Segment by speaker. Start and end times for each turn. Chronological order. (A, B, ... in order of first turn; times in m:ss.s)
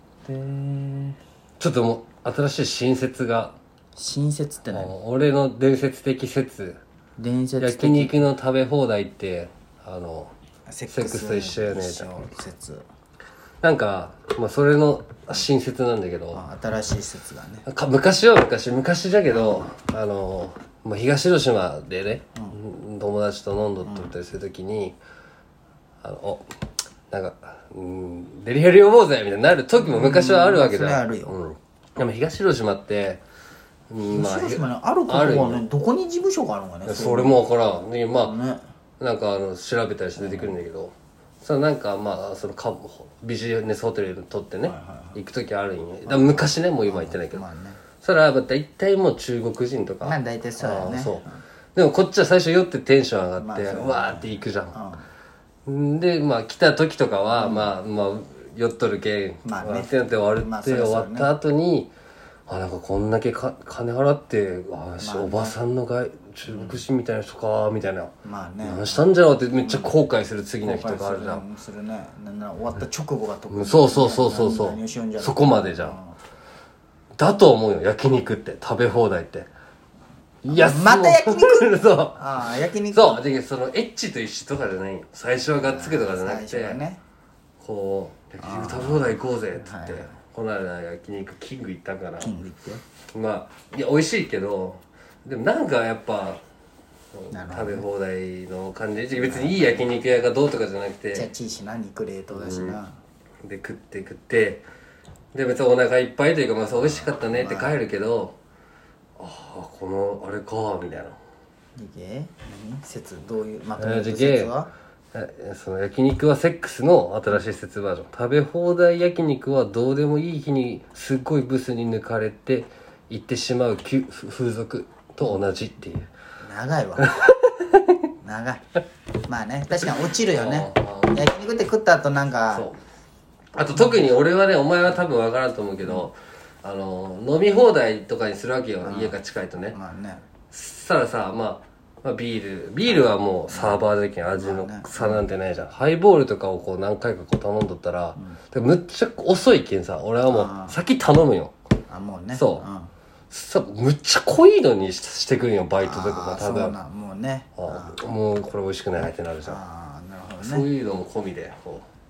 0:00.2-0:01.2 A
0:01.6-0:03.6 B
0:04.0-0:04.9 A
0:04.7-0:06.8 B
0:07.2-0:08.2 A
0:07.6-0:10.3 B
0:10.7-0:12.8 A
0:10.9-0:12.3 B
0:13.6-0:16.4 B
0:16.3-0:17.6 A
0:17.6-0:25.0 B
0:19.3-0:19.6 A
0:23.8-0:24.1 A
0:26.0-0:26.4 B
0:27.1-0:33.2 B
0:29.8-0:31.4 A
0:33.9-0:35.6 B
0:34.0-0:37.4 A
0:36.8-0:38.4 B
0:38.2-0:38.6 A
0:39.0-0:47.4 B
0:40.2-0:40.5 A
0:44.6-0:45.2 A
0:46.1-0:47.8 A
0:48.0-0:54.8 B
0:50.0-0:51.4 A
0:53.4-0:55.0 A
0:55.6-1:01.9 B
0:57.3-0:57.7 A
0:59.4-1:01.3 A
1:02.5-1:11.4 B
1:05.0-1:05.6 A
1:06.5-1:06.8 A
1:08.2-1:09.1 A
1:09.6-1:09.9 A
1:10.6-1:16.2 A
1:13.5-1:16.0 B
1:17.2-1:19.5 B
1:20.4-1:26.8 B
1:20.5-1:23.2 A
1:25.6-1:27.0 A
1:27.6-1:32.3 B
1:28.4-1:30.1 A
1:32.2-1:32.8 A
1:33.1-1:36.4 B
1:37.1-1:41.3 B
1:37.3-1:37.8 A
1:39.2-1:39.9 A
1:41.1-1:43.0 A
1:42.3-1:42.8 B
1:43.4-1:44.6 B
1:45.3-1:48.4 B
1:46.8-1:47.8 A
1:49.2-1:51.2 B
1:51.8-1:54.7 A
1:53.8-1:54.5 B
1:55.1-2:06.1 B
2:06.4-2:07.3 A
2:07.0-2:08.0 B
2:08.2-2:08.6 A
2:09.2-2:12.7 A
2:10.3-2:11.3 B
2:12.5-2:12.8 B
2:13.5-2:19.8 B
2:18.8-2:19.2 A
2:19.7-2:20.2 A
2:20.5-2:31.5 B
2:23.5-2:23.8 A
2:24.4-2:25.2 A
2:30.3-2:30.8 A
2:31.9-2:32.9 A
2:32.3-2:32.6 B
2:33.3-2:36.8 B
2:35.8-2:38.0 A
2:37.6-2:39.6 B
2:39.0-2:40.6 A
2:40.4-2:41.8 B